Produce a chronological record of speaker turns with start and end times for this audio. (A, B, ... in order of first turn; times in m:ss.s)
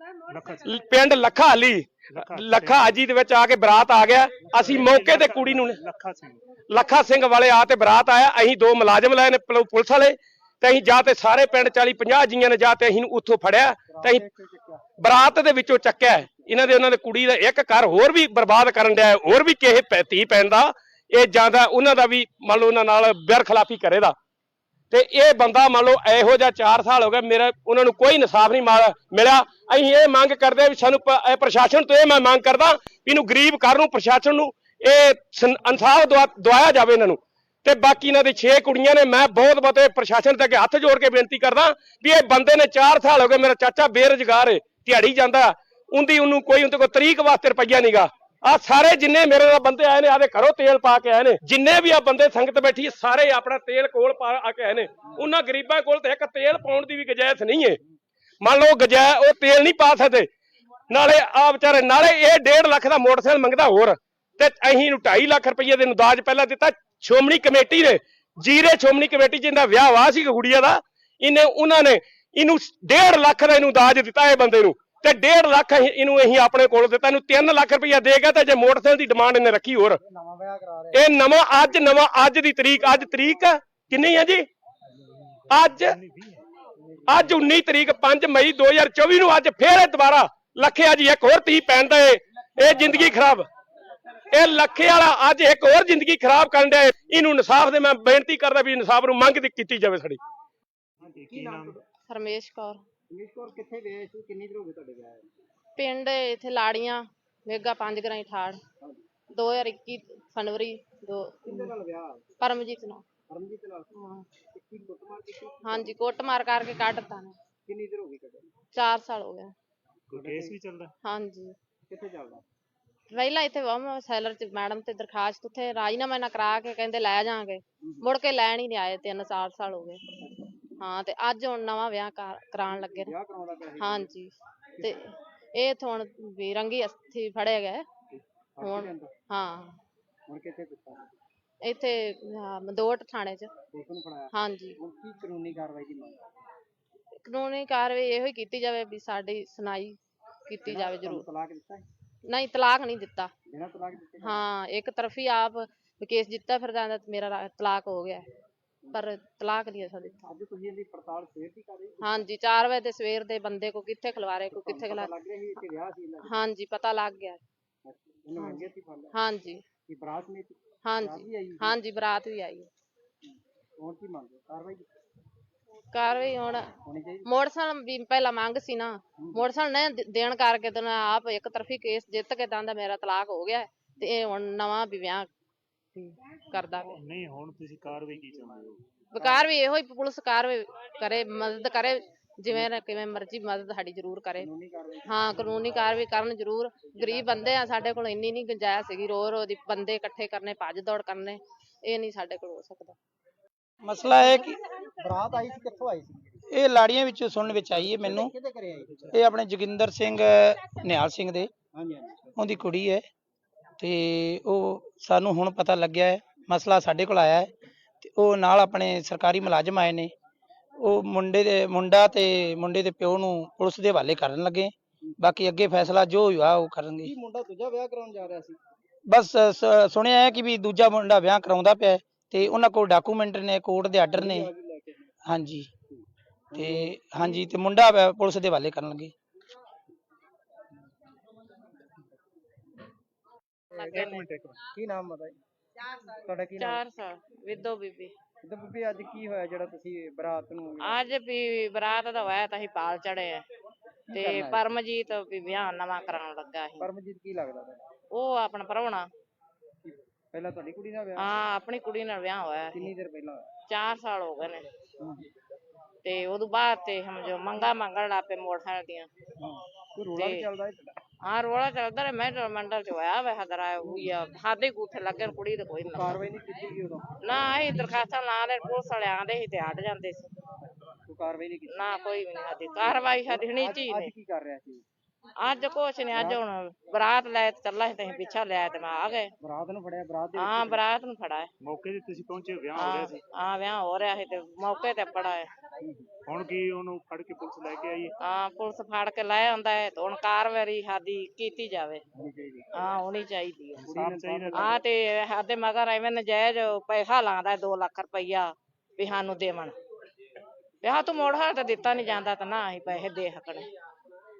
0:00.3-0:00.7 A
0:00.6-0:05.8 B
0:02.1-0:03.0 A
0:04.4-0:05.2 C
0:04.6-0:06.4 A
0:06.7-0:14.2 B
0:13.9-0:14.8 C
0:15.0-0:24.1 B
0:24.9-0:57.8 B
0:58.4-1:00.3 B
1:00.9-1:20.0 B
1:20.0-1:21.0 C
1:20.9-1:24.4 B
1:25.5-1:26.0 B
1:25.8-1:26.4 A
1:26.8-1:27.3 C
1:27.1-1:33.4 B
1:34.3-1:40.2 B
1:41.0-1:41.8 A
1:41.0-1:41.8 C
1:42.1-1:42.8 D
1:43.1-1:45.3 C
1:45.8-1:48.6 D
1:48.8-1:49.0 C
1:49.3-1:51.7 D
1:51.4-1:52.3 C
1:52.4-1:53.1 D
1:53.3-1:56.1 C
1:53.9-1:54.2 D
1:55.6-1:57.4 D
1:57.7-1:58.5 C
1:58.7-1:59.5 D
2:00.1-2:00.9 A
2:00.1-2:00.6 C
2:01.0-2:01.6 D
2:01.8-2:02.4 C
2:03.1-2:10.0 D
2:07.8-2:08.1 C
2:10.8-2:13.1 D
2:12.7-2:14.1 C
2:13.8-2:17.8 D
2:18.6-2:19.1 C
2:18.6-2:19.8 D
2:20.3-2:21.2 C
2:21.6-2:23.5 D
2:23.7-2:26.2 C
2:24.3-2:24.8 D
2:27.1-2:31.2 D
2:30.6-2:31.8 C
2:32.3-2:33.3 D
2:33.5-2:34.4 C
2:34.2-2:38.3 D
2:38.9-2:40.2 D
2:40.2-2:42.2 C
2:42.0-2:45.1 D
2:44.5-2:46.4 C
2:46.2-2:47.4 D
2:47.8-2:49.1 C
2:48.3-2:49.6 D
2:49.9-2:51.8 C
2:50.8-2:52.7 D
2:53.2-2:54.9 C
2:55.9-3:05.3 D
2:56.9-2:57.3 C
2:59.2-2:59.4 C
3:05.9-3:07.0 D
3:06.9-3:08.8 A
3:09.1-3:14.5 D
3:09.2-3:09.5 C
3:14.4-3:16.0 C
3:15.0-3:23.0 D
3:16.9-3:17.6 C
3:23.8-3:24.6 E
3:25.0-3:26.4 C
3:26.5-3:28.3 E
3:27.6-3:29.2 C
3:29.1-3:31.5 E
3:31.7-3:32.4 C
3:32.4-3:33.0 E
3:33.8-3:40.1 E
3:40.8-3:47.1 E
3:47.0-3:48.6 C
3:49.1-3:54.5 E
3:54.1-3:55.1 C
3:55.2-3:55.7 E
3:55.9-3:57.4 C
3:56.5-3:59.1 E
4:03.7-4:04.1 C
4:03.7-4:04.3 F
4:04.0-4:04.6 A
4:04.6-4:05.4 C
4:06.2-4:06.8 C
4:06.6-4:08.1 F
4:08.4-4:11.0 C
4:10.8-4:13.4 F
4:14.1-4:14.7 C
4:14.1-4:16.9 F
4:16.8-4:17.8 C
4:18.1-4:19.1 F
4:19.8-4:21.4 C
4:21.2-4:22.8 F
4:22.7-4:23.5 C
4:23.7-4:24.7 F
4:25.0-4:25.2 C
4:26.0-4:29.1 F
4:29.4-4:30.9 C
4:30.2-4:30.4 F
4:31.2-4:36.2 F
4:33.8-4:34.1 C
4:35.9-4:37.1 C
4:37.2-4:40.3 F
4:41.1-4:41.8 C
4:41.7-4:44.1 F
4:42.9-4:44.8 C
4:45.4-4:49.3 F
4:46.1-4:46.4 C
4:49.4-4:50.8 C
4:50.4-4:51.5 F
4:51.6-4:53.2 A
4:52.8-4:55.5 F
4:55.8-4:56.1 C
4:56.2-4:58.1 A
4:58.2-5:02.0 F
5:02.1-5:02.7 C
5:02.7-5:03.9 F
5:03.8-5:04.7 A
5:03.8-5:04.8 C
5:04.5-5:09.8 F
5:10.8-5:13.7 F